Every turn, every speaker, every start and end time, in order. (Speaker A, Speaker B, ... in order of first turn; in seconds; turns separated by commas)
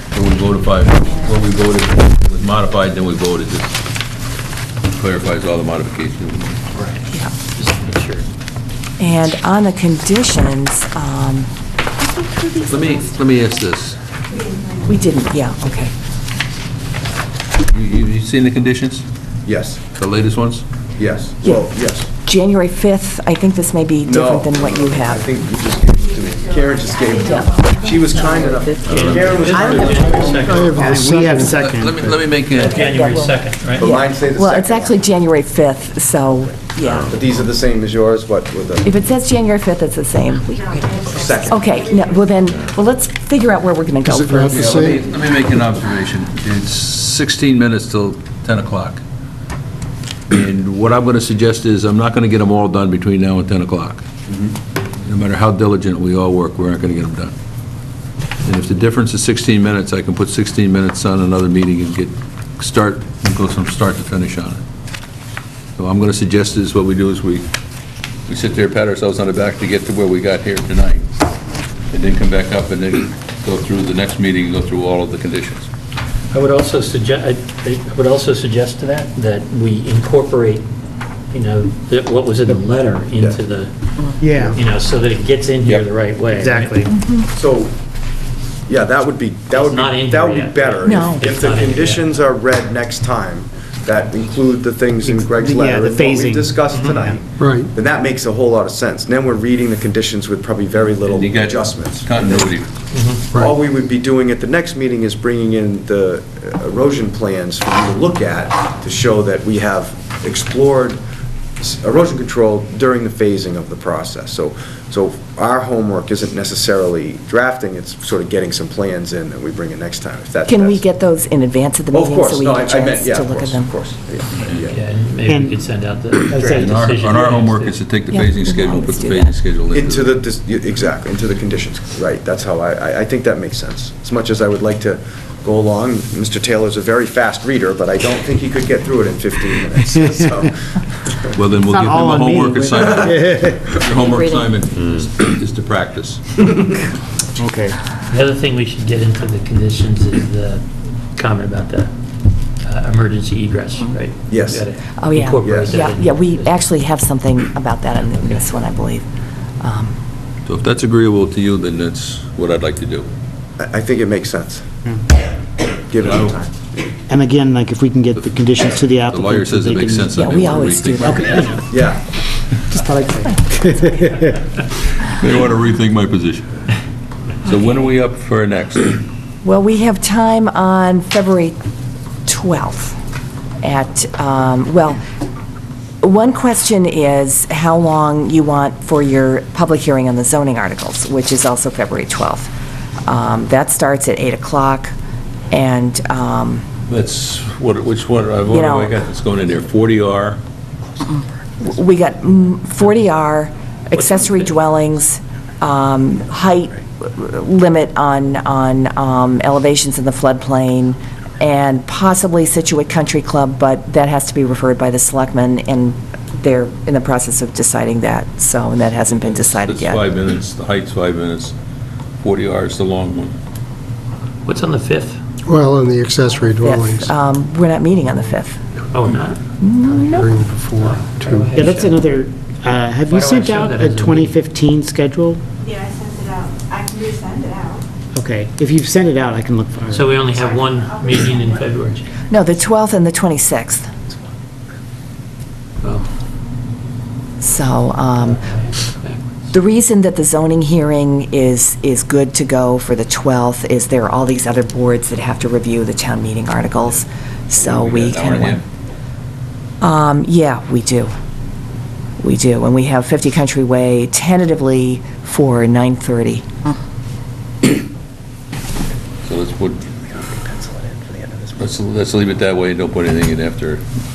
Speaker A: 0.1-3.8, Speaker A: 4.9-6.7, Speaker B: 6.7-8.3, Speaker C: 9.0-11.5, Speaker C: 12.0-13.1, Speaker A: 12.7-14.0, Speaker C: 14.8-15.9, Speaker A: 17.7-19.1, Speaker D: 19.4-19.8, Speaker A: 19.9-20.6, Speaker D: 21.0-22.1, Speaker C: 21.4-25.4, Speaker D: 24.0-30.6, Speaker C: 27.2-29.9, Speaker E: 27.3-27.8, Speaker B: 28.9-31.1, Speaker F: 29.5-29.9, Speaker G: 30.2-31.5, Speaker F: 30.8-32.2, Speaker A: 31.4-33.0, Speaker C: 32.6-37.1, Speaker B: 32.6-33.9, Speaker D: 33.8-35.0, Speaker D: 37.0-38.9, Speaker C: 38.8-45.0, Speaker E: 40.8-42.3, Speaker D: 41.1-41.7, Speaker G: 44.0-45.0, Speaker A: 44.4-49.0, Speaker A: 50.3-54.0, Speaker A: 55.0-57.3, Speaker A: 58.4-64.6, Speaker A: 65.8-67.5, Speaker A: 68.3-71.1, Speaker A: 71.9-75.7, Speaker B: 76.3-80.7, Speaker B: 81.3-83.7, Speaker F: 84.2-84.6, Speaker B: 84.3-86.9, Speaker F: 86.3-86.9, Speaker C: 86.9-87.2, Speaker D: 87.3-87.7, Speaker D: 88.7-102.6, Speaker B: 89.5-92.1, Speaker C: 90.8-91.2, Speaker F: 95.0-97.0, Speaker B: 96.7-97.1, Speaker G: 97.4-97.7, Speaker A: 101.0-102.7, Speaker B: 102.9-103.2, Speaker D: 103.3-111.0, Speaker D: 111.6-120.8, Speaker C: 120.5-123.7, Speaker D: 121.9-124.8, Speaker B: 124.6-127.8, Speaker F: 125.3-125.6, Speaker F: 126.3-126.7, Speaker A: 126.4-130.2, Speaker C: 128.1-129.4, Speaker D: 129.7-141.4, Speaker A: 141.3-146.5, Speaker F: 141.6-143.6, Speaker D: 142.7-143.1, Speaker C: 143.9-144.4, Speaker F: 147.4-147.8, Speaker B: 148.1-151.9, Speaker B: 152.6-156.6, Speaker D: 154.3-154.7, Speaker C: 155.0-159.1, Speaker D: 155.4-155.7, Speaker B: 158.0-158.5, Speaker C: 159.6-159.9, Speaker A: 160.4-163.1, Speaker D: 163.6-164.7, Speaker D: 165.9-166.8, Speaker A: 166.0-166.3, Speaker F: 167.1-170.2, Speaker A: 169.0-171.6, Speaker C: 170.1-171.6, Speaker F: 170.9-171.7, Speaker D: 171.7-172.0, Speaker F: 172.7-174.4, Speaker A: 174.9-176.5, Speaker A: 177.4-179.0, Speaker C: 179.4-181.6, Speaker C: 182.2-182.9, Speaker C: 183.6-185.0, Speaker C: 186.0-192.5, Speaker C: 193.1-194.9, Speaker C: 195.5-196.6, Speaker A: 196.8-200.4, Speaker C: 198.5-198.9, Speaker C: 201.6-220.0, Speaker B: 203.9-204.7, Speaker A: 219.5-221.5, Speaker A: 222.2-223.3, Speaker B: 224.4-225.2, Speaker G: 225.4-227.1, Speaker C: 226.6-228.6, Speaker B: 228.9-232.1, Speaker C: 229.6-230.3, Speaker G: 230.1-231.6, Speaker F: 231.5-235.4, Speaker B: 233.1-234.4, Speaker E: 235.7-237.8, Speaker F: 238.1-240.2, Speaker B: 239.9-242.1, Speaker C: 242.3-243.9, Speaker B: 245.8-246.1, Speaker C: 247.4-248.4, Speaker B: 248.2-249.3, Speaker C: 249.5-258.6, Speaker A: 257.6-258.6, Speaker C: 259.8-261.1, Speaker C: 262.2-266.4, Speaker A: 269.2-270.1, Speaker D: 270.3-271.5, Speaker A: 271.6-273.8